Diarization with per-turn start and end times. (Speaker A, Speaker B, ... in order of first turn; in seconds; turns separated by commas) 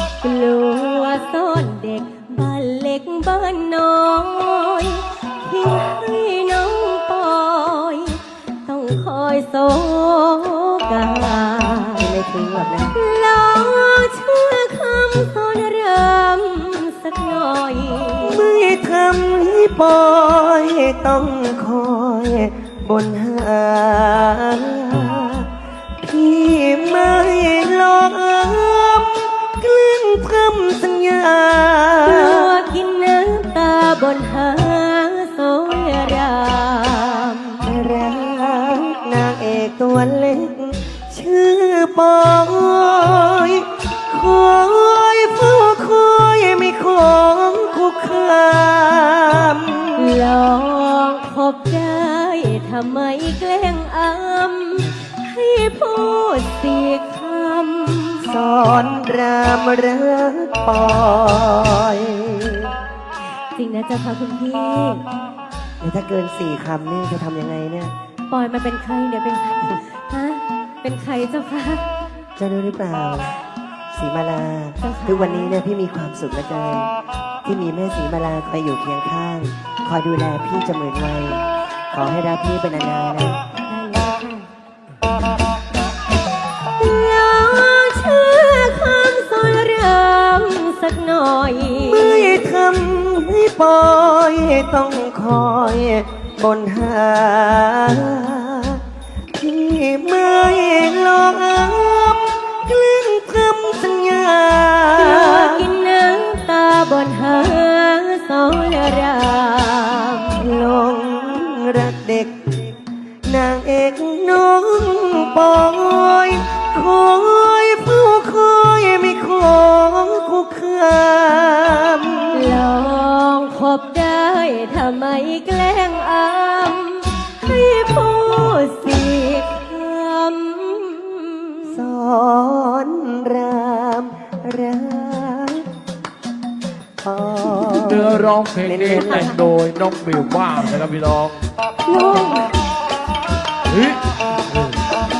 Speaker A: 0.2-12.1, Speaker B: 12.0-12.9, Speaker A: 12.9-18.5, Speaker B: 18.2-25.5, Speaker B: 26.0-32.5, Speaker A: 32.0-37.6, Speaker B: 37.6-50.1, Speaker A: 50.0-58.2, Speaker B: 58.2-62.7, Speaker A: 63.5-65.0, Speaker B: 65.8-67.9, Speaker A: 68.3-71.9, Speaker B: 72.4-73.4, Speaker B: 73.9-76.9, Speaker A: 74.8-75.6, Speaker B: 77.5-83.4, Speaker A: 83.7-84.5, Speaker A: 86.8-92.5, Speaker B: 91.8-98.8, Speaker B: 99.4-105.7, Speaker A: 105.0-110.3, Speaker B: 110.3-112.5, Speaker B: 113.2-122.6, Speaker A: 122.3-131.8, Speaker B: 131.7-135.7, Speaker B: 137.0-139.4, Speaker C: 137.6-141.4, Speaker A: 141.9-142.5, Speaker C: 143.7-144.0